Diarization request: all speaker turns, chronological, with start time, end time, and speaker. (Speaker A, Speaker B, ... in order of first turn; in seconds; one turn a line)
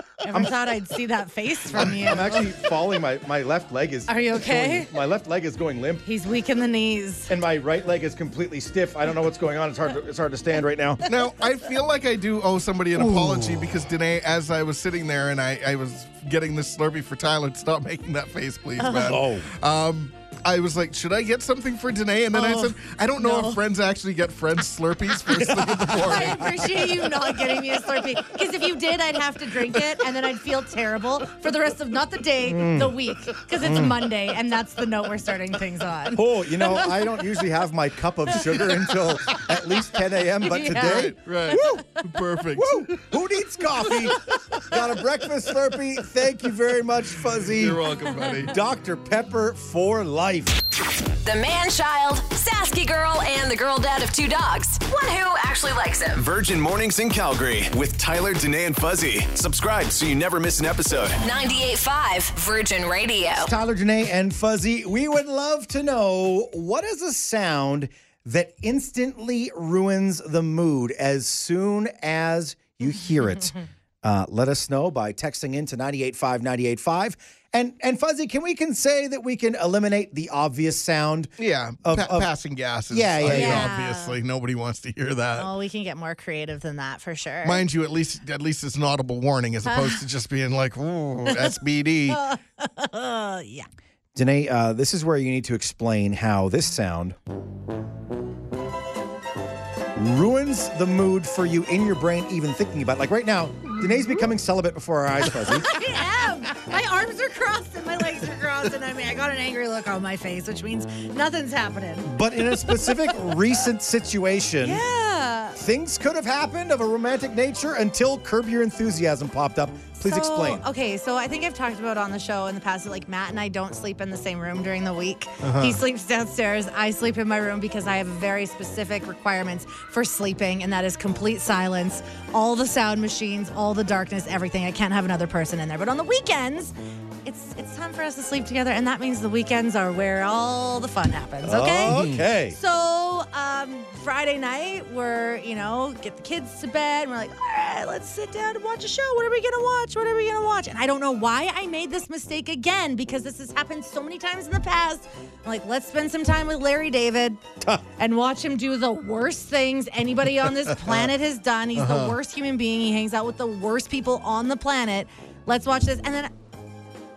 Speaker A: 0.2-2.5
Speaker B: 1.7-6.0
Speaker A: 4.1-4.9
Speaker A: 6.0-7.3
Speaker B: 7.3-11.0
Speaker C: 11.1-26.9
Speaker B: 13.0-13.7
Speaker A: 18.8-19.1
Speaker B: 19.0-19.5
Speaker A: 22.3-23.6
Speaker B: 25.4-26.4
Speaker A: 26.1-37.2
Speaker B: 32.4-33.0
Speaker B: 33.6-34.0
Speaker B: 36.1-41.8
Speaker A: 40.4-41.6
Speaker C: 40.7-43.1
Speaker B: 42.5-50.5
Speaker C: 47.3-48.6
Speaker D: 51.2-56.2
Speaker E: 56.1-61.2
Speaker D: 61.2-63.5
Speaker B: 63.4-82.3
Speaker C: 81.4-85.5
Speaker B: 82.9-83.7
Speaker A: 83.2-84.2
Speaker A: 85.4-87.6
Speaker C: 87.4-92.2
Speaker A: 89.7-90.0
Speaker A: 92.1-93.7
Speaker B: 94.1-97.2
Speaker B: 99.9-105.8
Speaker A: 103.7-104.2
Speaker A: 105.3-113.3
Speaker B: 112.0-114.8
Speaker A: 114.6-115.6
Speaker B: 115.5-120.6
Speaker A: 120.0-136.7
Speaker C: 125.4-125.8
Speaker A: 137.2-157.4
Speaker B: 141.4-142.6
Speaker C: 141.8-142.2
Speaker A: 158.0-166.3
Speaker C: 161.7-162.2